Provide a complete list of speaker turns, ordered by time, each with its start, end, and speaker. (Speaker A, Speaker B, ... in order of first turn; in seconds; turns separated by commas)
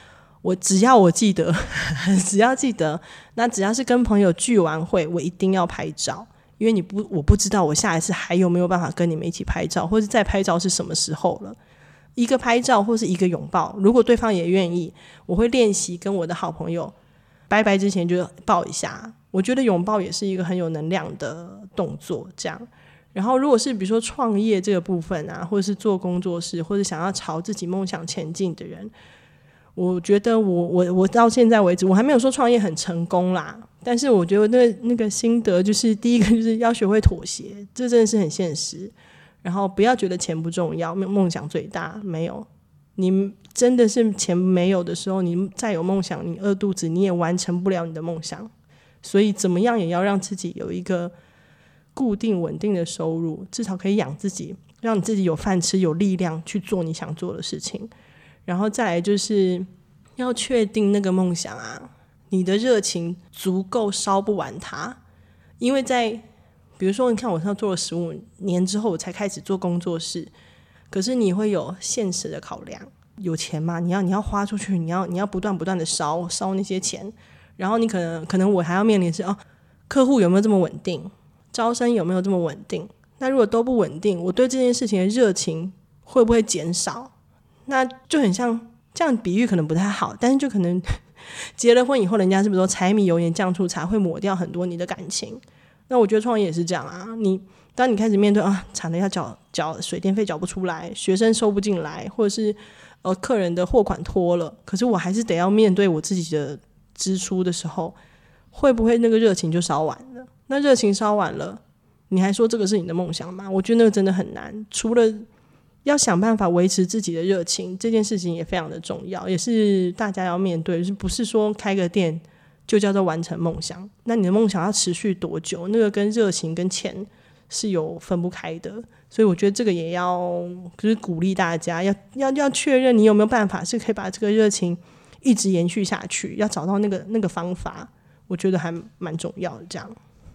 Speaker A: 0.4-11.6, Speaker A: 12.2-16.9, Speaker A: 17.5-28.9, Speaker A: 29.8-48.5, Speaker A: 49.0-51.1, Speaker A: 52.0-57.9, Speaker A: 58.5-59.7, Speaker A: 60.2-65.0, Speaker A: 65.6-66.2, Speaker A: 66.8-70.3, Speaker A: 70.9-87.1, Speaker A: 87.7-108.0, Speaker A: 108.5-115.3, Speaker A: 115.8-140.0